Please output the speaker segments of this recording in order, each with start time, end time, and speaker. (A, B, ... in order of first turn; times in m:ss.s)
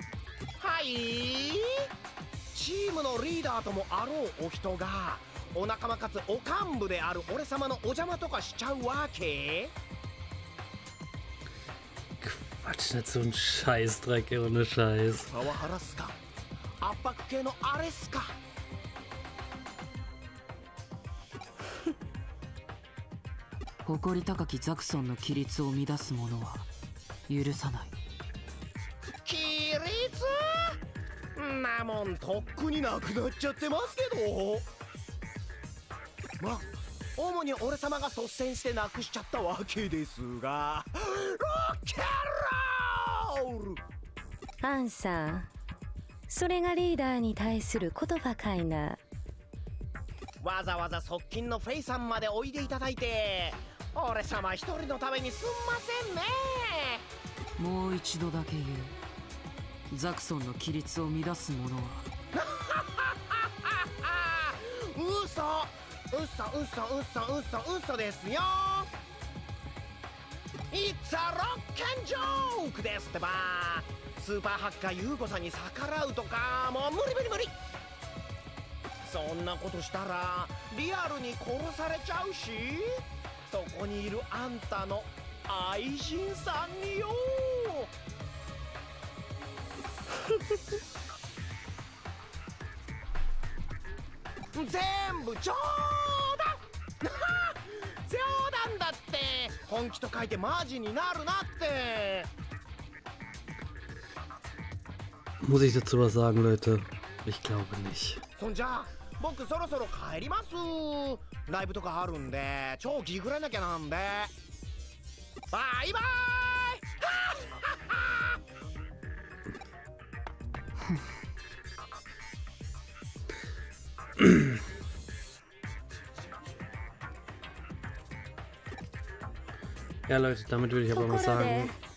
0:00.6-0:01.9 A
0:02.5-0:09.7 A
0:12.2-0:15.3 B
0:15.3-0:16.2 A
0:16.8-0:18.4 A
0:23.8-0:26.7 C
0:27.3-0:28.0 C
0:29.2-0:30.8 A
0:31.4-0:34.7 A
0:36.4-0:43.8 A
0:44.6-0:45.5 D
0:46.3-0:49.0 D
0:50.4-0:57.0 A
0:57.6-0:59.0 C
0:59.9-1:02.1 C
1:02.3-1:08.9 A
1:10.7-1:17.6 A
1:19.0-1:27.9 A
1:30.3-1:30.5 A
1:34.5-1:42.3 A
1:45.4-1:48.2 B
1:48.4-1:54.3 A
1:55.5-1:58.4 A
2:10.1-2:11.7 B
2:10.9-2:11.7 D